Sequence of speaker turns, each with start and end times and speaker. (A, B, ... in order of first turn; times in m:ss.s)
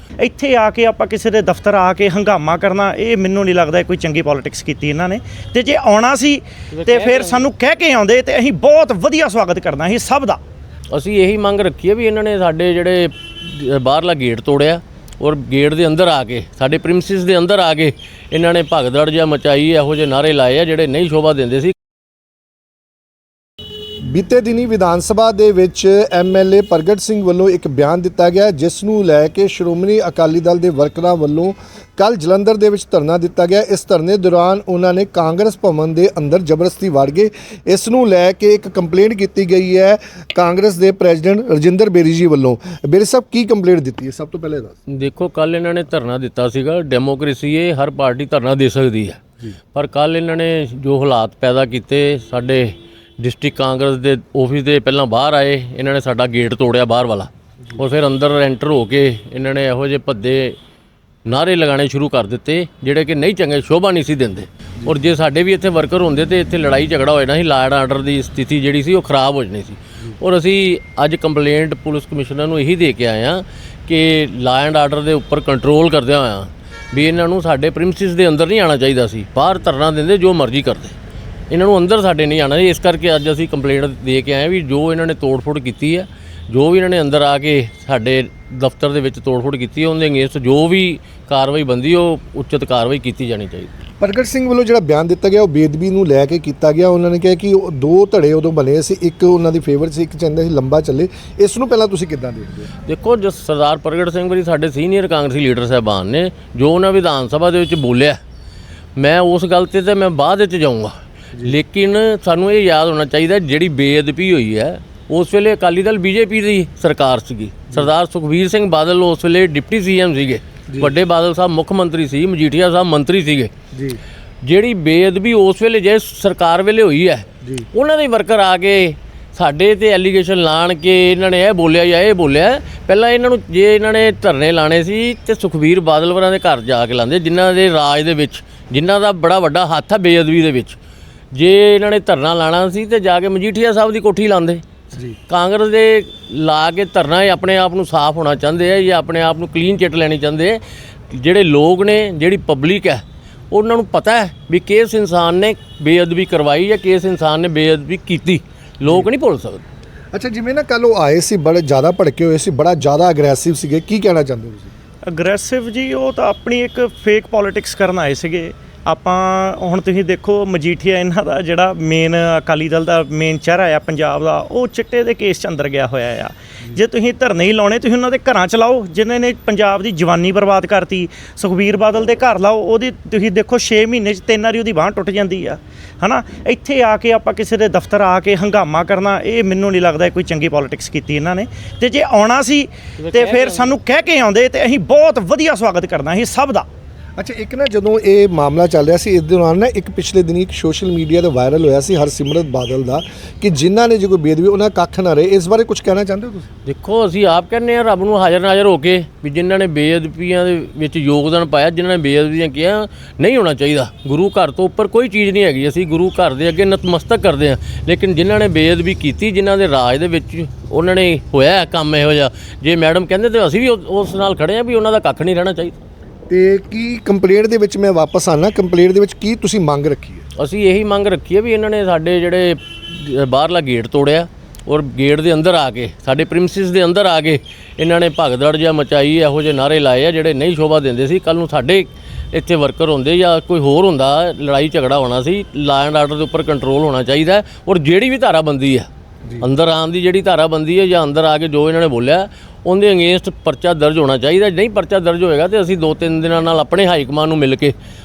0:00.2-0:10.4 A
0:06.7-0:07.4 B
0:10.9-0:21.7 B
0:24.0-0:44.7 C
0:44.9-0:49.2 B
0:49.7-1:00.6 B
1:01.2-1:20.9 B
1:21.5-1:33.7 B
1:34.0-1:42.7 C
1:42.8-1:48.2 B
1:49.0-2:03.5 B
2:00.7-2:00.9 C
2:03.7-2:04.0 C
2:04.4-2:20.8 B
2:21.3-2:24.7 B
2:25.3-2:39.6 B
2:38.8-2:39.1 C
2:40.1-2:44.7 C
2:45.0-3:16.7 A
3:13.0-3:13.7 B
3:17.2-3:26.5 C
3:26.6-3:45.8 B
3:46.3-3:50.2 C
3:50.4-4:08.9 B
4:09.4-4:17.7 B